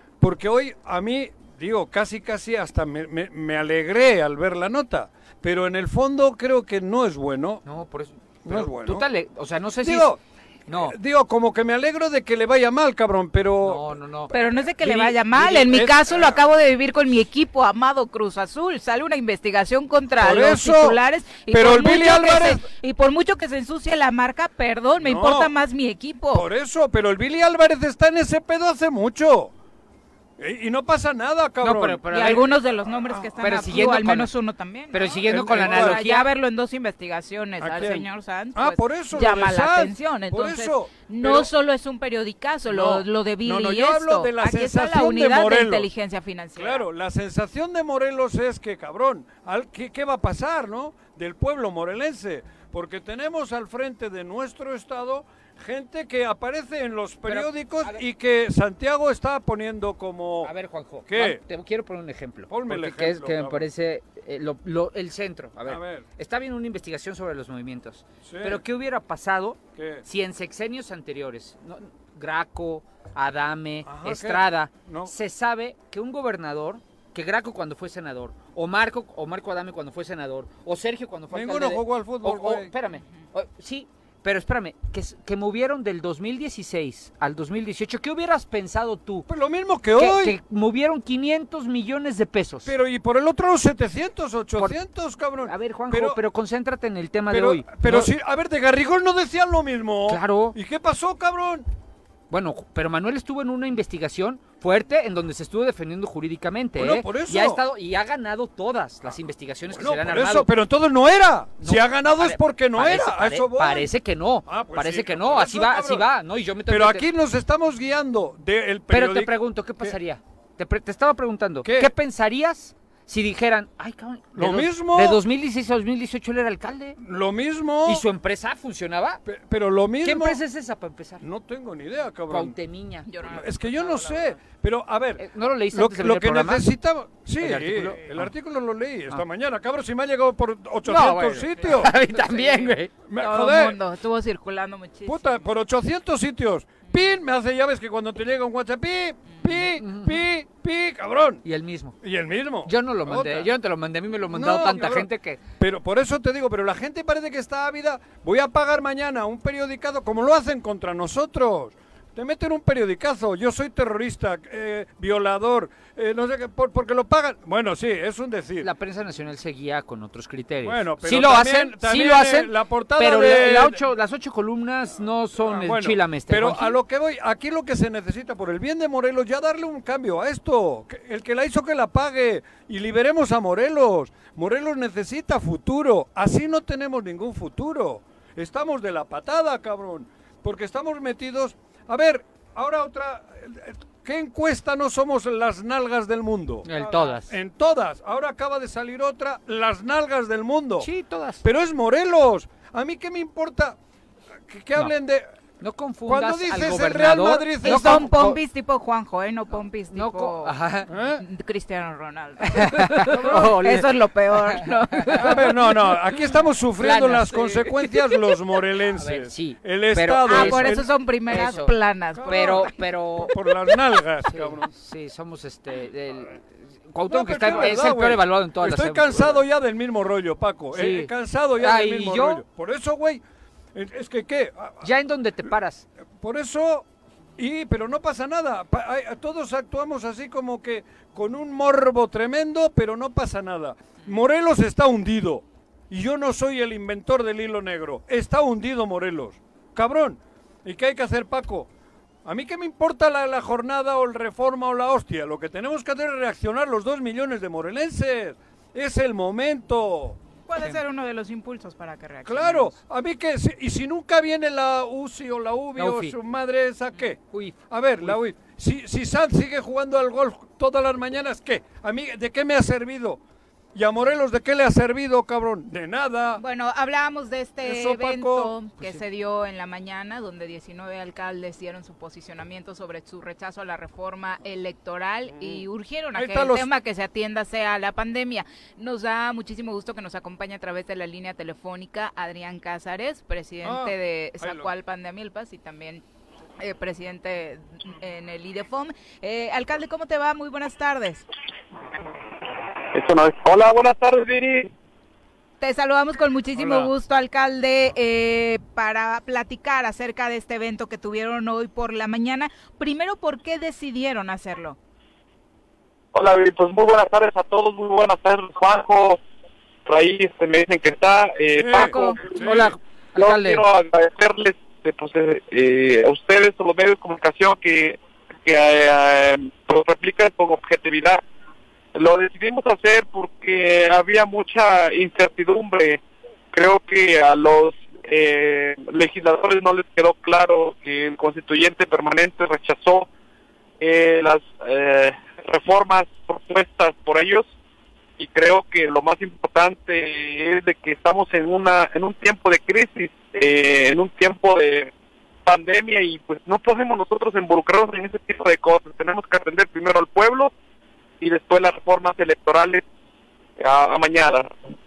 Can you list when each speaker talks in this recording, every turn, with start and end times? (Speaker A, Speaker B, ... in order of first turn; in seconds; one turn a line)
Speaker A: 0.2-7.6
Speaker B: 7.6-10.1
Speaker A: 8.4-9.1
Speaker A: 9.8-10.2
Speaker B: 10.7-10.9
Speaker A: 10.7-13.9
Speaker B: 13.6-14.3
Speaker C: 14.3-26.5
Speaker A: 14.8-16.4
Speaker A: 20.2-21.0
Speaker A: 21.5-22.7
Speaker A: 25.0-25.5
Speaker A: 26.3-29.5
Speaker A: 30.4-32.4
Speaker B: 31.6-32.5
Speaker C: 32.1-46.9
Speaker B: 33.4-34.3
Speaker B: 34.9-36.3
Speaker A: 35.2-36.0
Speaker A: 37.6-41.5
Speaker A: 42.7-45.9
Speaker A: 46.5-60.5
Speaker B: 57.2-58.0
Speaker B: 60.4-89.3
Speaker A: 61.1-61.4
Speaker A: 62.5-63.6
Speaker A: 65.7-66.0
Speaker A: 68.2-68.6
Speaker A: 69.8-70.0
Speaker A: 73.8-75.1
Speaker A: 81.3-82.7
Speaker A: 89.3-90.3
Speaker B: 90.0-92.7
Speaker A: 92.6-96.2
Speaker B: 95.4-98.1
Speaker A: 97.3-101.7
Speaker B: 100.1-100.6
Speaker B: 102.3-110.5
Speaker A: 106.8-107.6
Speaker A: 109.7-113.9
Speaker B: 111.6-117.1
Speaker A: 114.5-116.1
Speaker A: 116.7-119.9
Speaker B: 118.9-127.0
Speaker A: 121.6-121.9
Speaker A: 124.3-125.2
Speaker A: 127.0-128.0
Speaker B: 127.8-129.2
Speaker A: 129.2-130.4
Speaker B: 130.0-131.2
Speaker A: 131.2-132.5
Speaker B: 132.3-133.4
Speaker C: 133.1-134.2
Speaker A: 133.3-141.9
Speaker B: 135.2-136.7
Speaker B: 137.4-138.3
Speaker B: 140.8-142.9
Speaker C: 141.6-145.4
Speaker A: 143.0-143.8
Speaker A: 145.0-151.4
Speaker C: 146.9-147.2
Speaker C: 149.3-149.6
Speaker B: 149.8-150.2
Speaker B: 151.4-152.0
Speaker A: 152.0-153.5
Speaker B: 152.6-155.4
Speaker A: 154.3-168.7
Speaker B: 168.6-176.8
Speaker A: 170.6-173.8
Speaker A: 175.4-200.9
Speaker B: 196.6-197.3
Speaker B: 200.8-201.4
Speaker A: 201.4-203.8
Speaker A: 204.5-205.3
Speaker B: 205.6-208.4
Speaker A: 206.1-208.1
Speaker C: 207.6-210.5
Speaker B: 209.9-210.9
Speaker A: 210.9-211.2
Speaker C: 211.2-215.7
Speaker B: 212.5-213.9
Speaker A: 213.0-213.8
Speaker B: 215.1-215.4
Speaker A: 215.2-220.9
Speaker B: 216.8-217.8
Speaker B: 218.9-223.3
Speaker C: 220.2-222.7
Speaker A: 222.1-224.7
Speaker B: 224.2-229.4
Speaker A: 227.1-233.2
Speaker B: 230.7-232.4
Speaker A: 233.7-234.8
Speaker B: 234.8-235.8
Speaker A: 236.2-236.8
Speaker A: 237.4-251.7
Speaker A: 252.2-260.2
Speaker C: 260.5-262.7
Speaker A: 262.2-273.2
Speaker B: 265.8-266.1
Speaker B: 267.3-268.2
Speaker A: 273.7-276.4
Speaker C: 276.4-296.0
Speaker A: 277.6-279.0
Speaker A: 285.3-286.7
Speaker A: 293.6-294.7
Speaker C: 296.6-301.2
Speaker D: 302.9-304.7
Speaker C: 305.6-314.8
Speaker A: 306.6-306.9
Speaker D: 316.1-319.2
Speaker D: 319.8-322.4
Speaker A: 321.6-322.7
Speaker C: 321.9-322.2
Speaker B: 322.4-323.6
Speaker D: 323.2-331.2
Speaker D: 331.9-336.0
Speaker D: 336.5-343.1
Speaker D: 343.8-347.5
Speaker D: 348.2-354.9
Speaker D: 355.4-360.5
Speaker D: 361.2-362.8
Speaker D: 363.6-364.5